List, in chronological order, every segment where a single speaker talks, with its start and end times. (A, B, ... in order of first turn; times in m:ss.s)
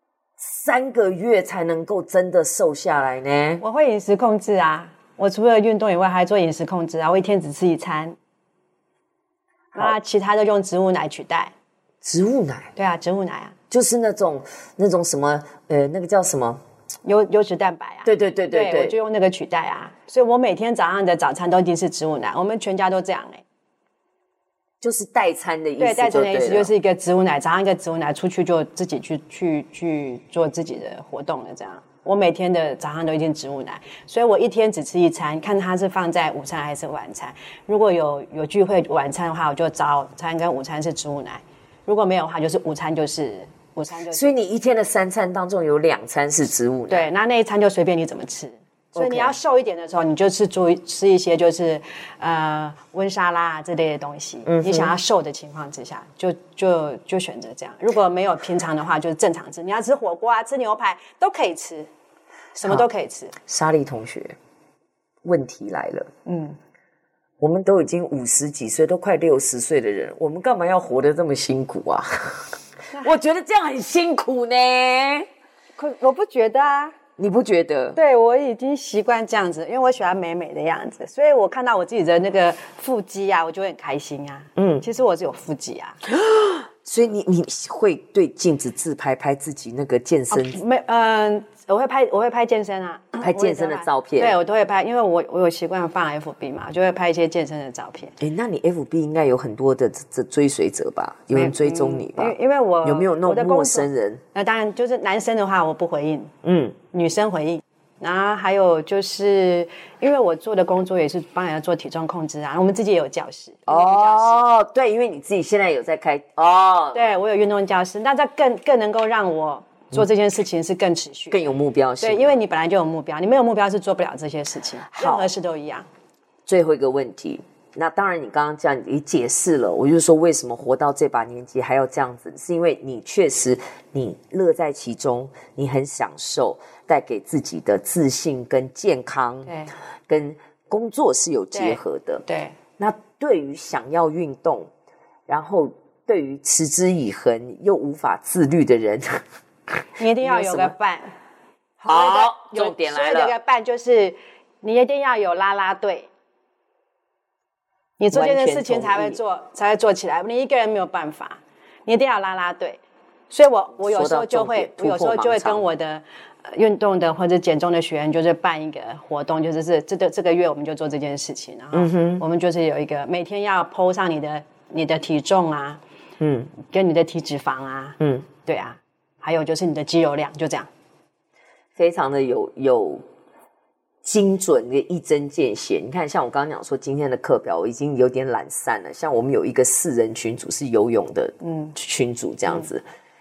0:00.4-0:03.6 A
0:03.6-0:08.2 B
0:09.8-0:11.5 B
0:12.0-0:12.7 A
0:12.8-0:13.6 B
0:13.7-0:16.6 A
0:17.0-0:23.4 B
0:18.0-0:19.0 A
0:24.8-0:26.7 A
0:25.8-0:44.4 B
0:44.1-0:47.1 A
0:46.9-1:01.9 B
0:49.0-0:49.4 A
0:54.5-0:54.9 A
1:02.6-1:03.4 B
1:03.5-1:04.4 A
1:05.2-1:06.1 A
1:06.3-1:06.6 B
1:07.4-1:15.3 A
1:15.8-1:17.0 B
1:17.2-1:18.0 A
1:18.0-1:26.0 B
1:24.6-1:24.8 A
1:26.1-1:30.6 A
1:30.3-1:38.1 B
1:33.2-1:34.4 A
1:38.2-1:44.2 A
1:41.3-1:46.3 B
1:46.4-1:46.8 A
1:46.9-1:54.5 B
1:53.7-1:57.1 A
1:56.9-2:01.4 B
2:01.3-2:02.4 A
2:02.0-2:05.9 B
2:04.9-2:05.3 A
2:06.5-2:22.2 A
2:19.5-2:19.8 B
2:21.5-2:22.6 B
2:22.8-2:24.7 A
2:25.3-2:29.2 A
2:30.0-2:30.7 A
2:30.0-2:31.2 B
2:31.8-2:36.1 B
2:31.8-2:33.3 A
2:38.0-2:55.8 B
2:38.1-2:39.2 A
2:43.8-2:45.6 A
2:51.7-2:52.2 A
2:56.2-2:56.5 A
2:56.6-3:00.7 B
2:58.0-2:58.3 A
3:01.8-3:03.0 A
3:04.0-3:12.8 A
3:11.4-3:11.7 B